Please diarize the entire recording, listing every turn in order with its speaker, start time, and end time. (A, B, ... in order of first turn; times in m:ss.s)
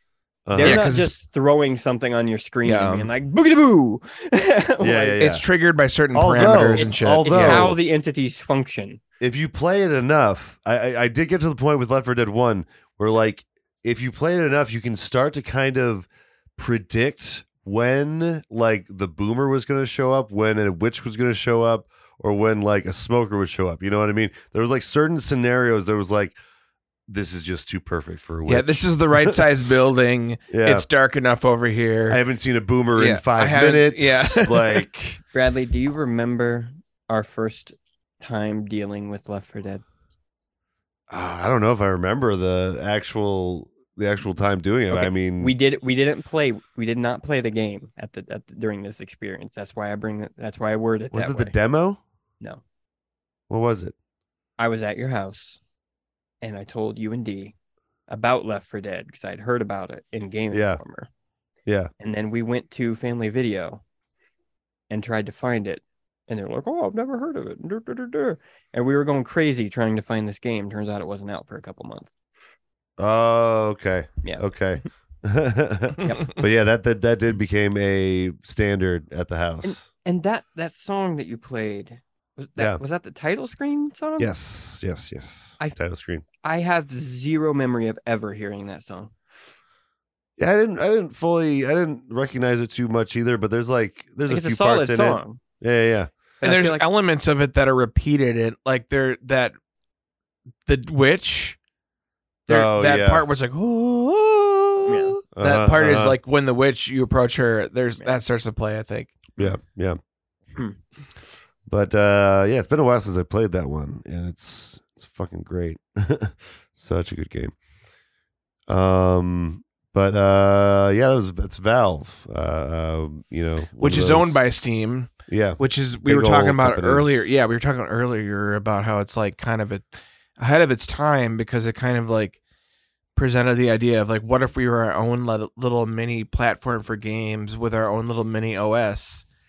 0:00.4-0:00.9 A
0:00.5-0:05.2 B
0:00.6-0:01.1 C
0:02.6-0:03.1 C
0:04.8-0:05.4 A
0:05.2-0:07.7 C
0:06.1-0:07.8 A
0:06.7-0:09.0 B
0:09.2-0:26.4 A
0:27.1-0:29.4 A
0:28.4-0:32.2 C
0:30.5-0:30.8 A
0:32.1-0:35.2 A
0:32.9-0:34.8 C
0:35.3-0:39.8 B
0:41.1-0:45.5 A
0:44.9-0:51.5 B
0:51.1-0:52.0 A
0:53.5-0:53.9 A
0:54.6-0:55.6 B
0:56.4-0:57.5 B
0:58.1-1:01.1 B
1:00.5-1:00.8 A
1:01.6-1:01.9 A
1:02.0-1:03.8 B
1:04.9-1:12.1 B
1:13.0-1:19.9 A
1:16.0-1:16.3 B
1:19.6-1:24.3 B
1:22.6-1:22.8 A
1:24.2-1:26.2 A
1:26.4-1:29.1 B
1:30.4-1:36.1 A
1:34.3-1:35.4 B
1:36.4-1:36.8 B
1:36.4-1:39.5 C
1:40.6-1:41.6 C
1:42.5-1:49.2 C
1:42.5-1:43.3 A
1:44.8-1:45.1 B
1:45.3-1:46.2 A
1:49.4-1:50.0 A
1:51.7-1:57.5 A
1:58.7-2:04.4 A
2:03.8-2:12.4 C
2:05.3-2:07.3 A
2:13.1-2:19.2 C